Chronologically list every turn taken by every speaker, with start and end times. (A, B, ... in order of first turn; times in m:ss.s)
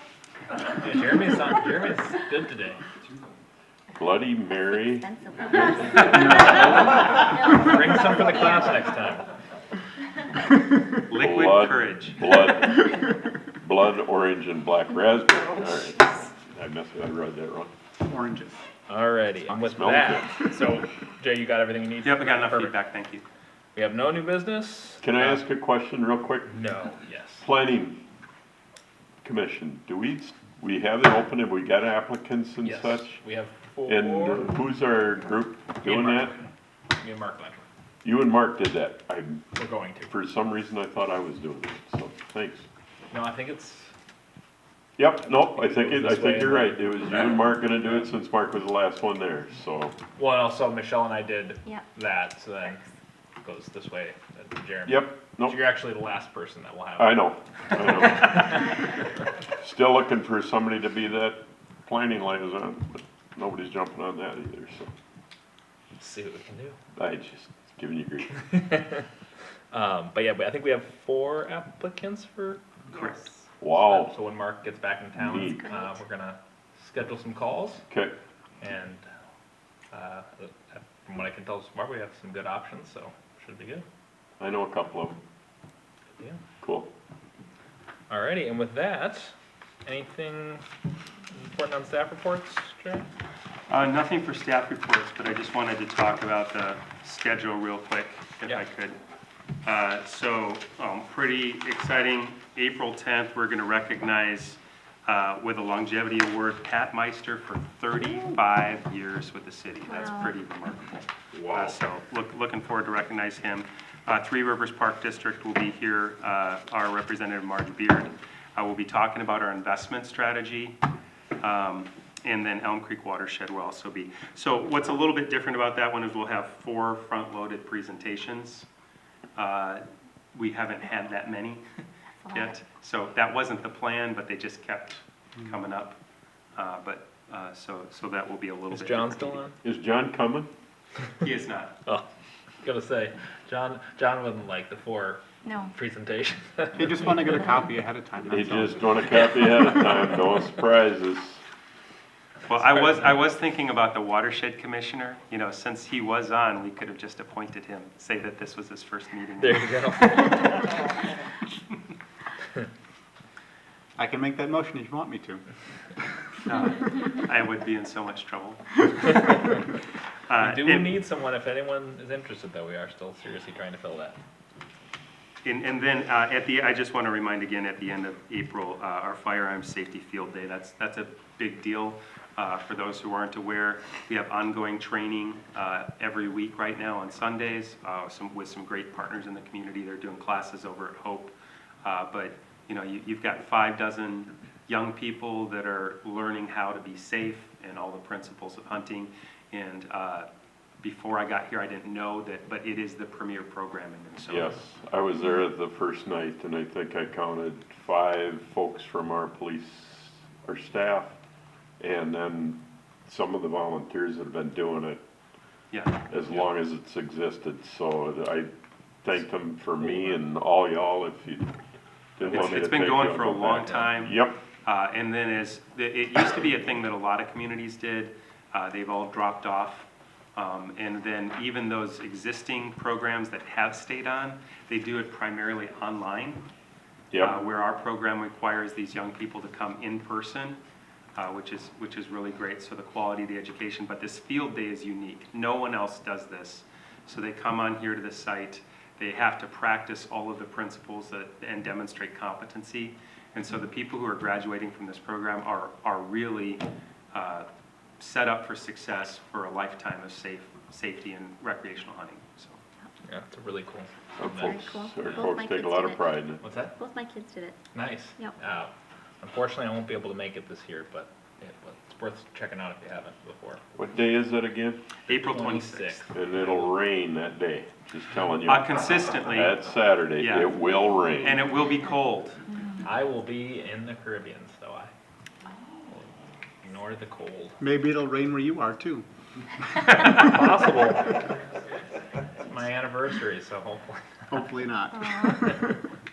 0:00.7-0:02.8 A
0:03.9-0:05.8 B
0:05.0-0:06.5 C
0:05.9-0:09.3 A
0:07.7-0:08.3 C
0:11.1-0:12.2 D
0:11.1-0:13.0 B
0:13.6-0:17.7 B
0:18.0-0:18.6 E
0:18.9-0:22.8 A
0:19.5-0:20.3 B
0:22.0-0:23.2 D
0:23.7-0:25.4 A
0:25.0-0:26.6 B
0:26.5-0:27.5 A
0:27.4-0:28.0 B
0:29.2-0:33.2 B
0:32.6-0:34.6 A
0:33.9-0:36.3 B
0:35.8-0:37.6 A
0:38.0-0:39.4 B
0:39.6-0:40.1 A
0:40.1-0:42.7 B
0:43.1-0:43.9 A
0:45.0-0:50.0 B
0:45.5-0:48.0 A
0:50.2-0:52.8 A
0:53.4-0:58.4 A
0:54.8-0:55.6 B
0:57.0-0:58.6 B
0:59.6-1:04.9 B
1:06.0-1:06.8 A
1:07.0-1:08.4 B
1:08.4-1:09.0 A
1:09.7-1:13.1 A
1:12.9-1:13.2 D
1:13.6-1:14.1 B
1:13.6-1:17.8 A
1:15.2-1:15.6 B
1:15.4-1:15.8 C
1:17.9-1:18.2 B
1:18.6-1:19.0 A
1:19.9-1:23.8 A
1:24.4-1:25.2 B
1:26.6-1:26.9 B
1:28.1-1:29.3 A
1:29.8-1:30.6 A
1:31.3-1:33.1 A
1:33.7-1:39.0 D
1:39.6-2:00.8 D
1:49.9-1:50.3 C
1:51.3-1:51.8 B
2:01.4-2:08.7 D
2:09.4-2:11.6 D
2:12.2-2:12.5 C
2:12.3-2:16.0 D
2:16.5-2:19.4 D
2:18.7-2:19.6 A
2:19.6-2:20.5 B
2:21.2-2:21.8 D
2:22.6-2:27.1 A
2:25.4-2:25.7 C
2:26.8-2:29.0 E
2:28.3-2:31.4 B
2:32.4-2:39.7 D
2:32.4-2:33.3 A
2:39.4-2:40.8 A
2:44.0-2:45.4 E
2:46.4-2:49.4 D
2:50.3-2:51.0 D
2:50.4-2:54.2 A
2:55.4-3:20.3 D
3:20.8-3:24.5 D
3:24.3-3:31.2 B
3:31.8-3:35.0 B
3:35.7-3:36.5 D
3:36.1-3:38.5 B
3:39.0-3:41.5 B
3:42.2-3:44.4 B
3:42.2-3:56.4 D
3:57.1-3:57.4 B
3:57.2-4:00.6 D
4:01.2-4:17.5 D
4:18.0-4:22.6 D
4:23.0-4:25.2 A
4:24.2-4:26.4 B
4:24.4-4:26.1 C
4:26.4-4:26.8 A
4:26.8-4:27.6 C
4:27.7-4:33.6 A
4:33.8-4:34.8 B
4:35.1-4:36.7 A
4:35.1-4:36.1 D
4:36.1-4:41.4 B
4:38.4-4:39.6 D
4:40.2-4:40.5 D
4:41.2-4:42.4 D
4:42.8-4:44.9 A
4:46.6-4:47.6 A
4:47.6-4:49.0 E
4:49.8-4:51.2 A
4:52.4-4:54.4 A
4:54.3-4:55.7 E